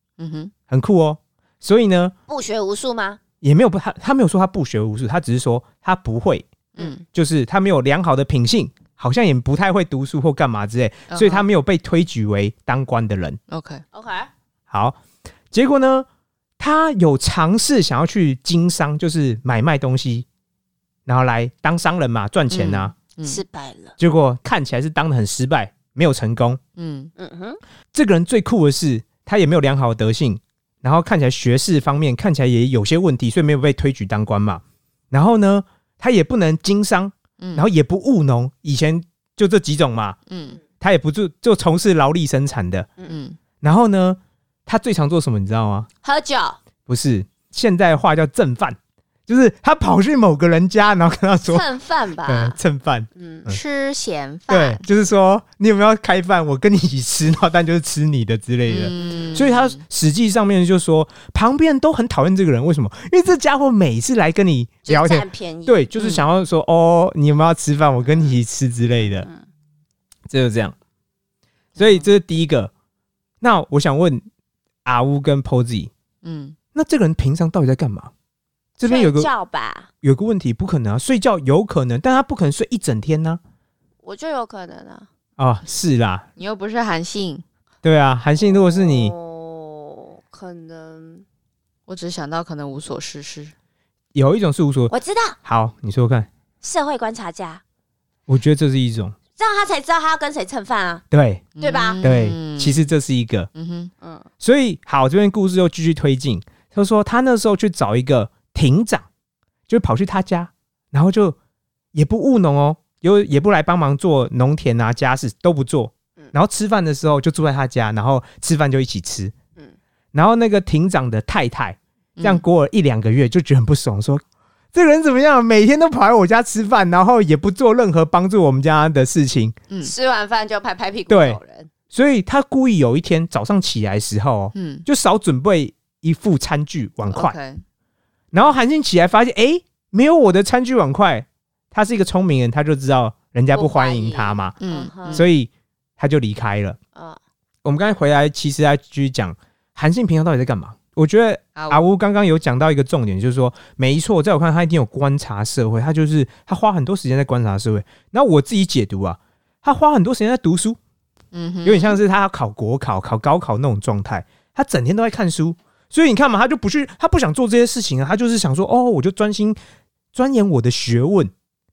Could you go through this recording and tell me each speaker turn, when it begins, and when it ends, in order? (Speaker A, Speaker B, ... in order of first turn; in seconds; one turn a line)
Speaker A: 0.2-0.5
Speaker B: 0.7-2.1
Speaker C: 2.3-3.2
Speaker B: 3.4-6.5
Speaker A: 6.8-7.0
Speaker B: 7.1-13.4
Speaker A: 11.1-11.4
Speaker A: 13.5-13.8
Speaker C: 13.9-14.3
Speaker B: 14.7-15.0
Speaker B: 15.5-16.1
Speaker B: 16.6-20.2
Speaker B: 21.1-22.9
Speaker A: 22.5-23.4
Speaker C: 23.2-23.9
Speaker B: 24.0-26.6
Speaker A: 26.8-27.1
Speaker C: 27.2-27.6
Speaker B: 27.9-40.2
Speaker A: 37.4-37.7
Speaker A: 40.3-40.6
Speaker B: 40.8-42.9
Speaker A: 43.1-43.4
Speaker B: 43.6-45.9
Speaker C: 46.0-46.6
Speaker B: 46.9-48.8
Speaker B: 49.3-51.6
Speaker C: 51.5-52.6
Speaker B: 52.2-53.6
Speaker C: 53.2-53.5
Speaker A: 53.5-54.8
Speaker B: 54.5-69.3
Speaker A: 58.7-59.8
Speaker C: 64.9-65.8
Speaker A: 66.0-66.2
Speaker C: 69.1-69.4
Speaker B: 70.3-70.7
Speaker A: 71.8-72.0
Speaker B: 71.8-72.7
Speaker B: 73.4-74.2
Speaker B: 74.8-75.9
Speaker A: 76.2-76.5
Speaker B: 76.7-78.1
Speaker B: 78.8-79.3
Speaker C: 78.8-79.9
Speaker B: 80.0-83.4
Speaker C: 84.0-85.1
Speaker B: 85.4-86.2
Speaker A: 86.4-87.4
Speaker B: 87.8-89.1
Speaker C: 88.5-91.2
Speaker A: 91.9-93.5
Speaker B: 94.1-94.9
Speaker C: 94.9-95.4
Speaker B: 95.4-96.3
Speaker C: 96.6-97.6
Speaker B: 98.3-99.2
Speaker C: 99.4-101.0
Speaker B: 101.1-101.4
Speaker A: 101.6-102.9
Speaker C: 101.6-102.0
Speaker B: 102.0-103.5
Speaker A: 103.5-103.9
Speaker C: 104.0-104.2
Speaker B: 104.4-109.1
Speaker B: 109.7-111.3
Speaker B: 111.9-119.3
Speaker B: 120.1-124.2
Speaker A: 122.2-122.4
Speaker B: 124.7-129.6
Speaker C: 129.8-131.7
Speaker B: 131.1-137.3
Speaker A: 134.5-134.8
Speaker A: 137.1-137.6
Speaker B: 138.3-144.5
Speaker C: 143.5-145.3
Speaker A: 144.6-145.3
Speaker B: 145.1-146.8
Speaker B: 147.6-160.8
Speaker A: 151.6-151.8
Speaker A: 161.3-162.0
Speaker B: 161.6-169.6
Speaker B: 170.1-171.3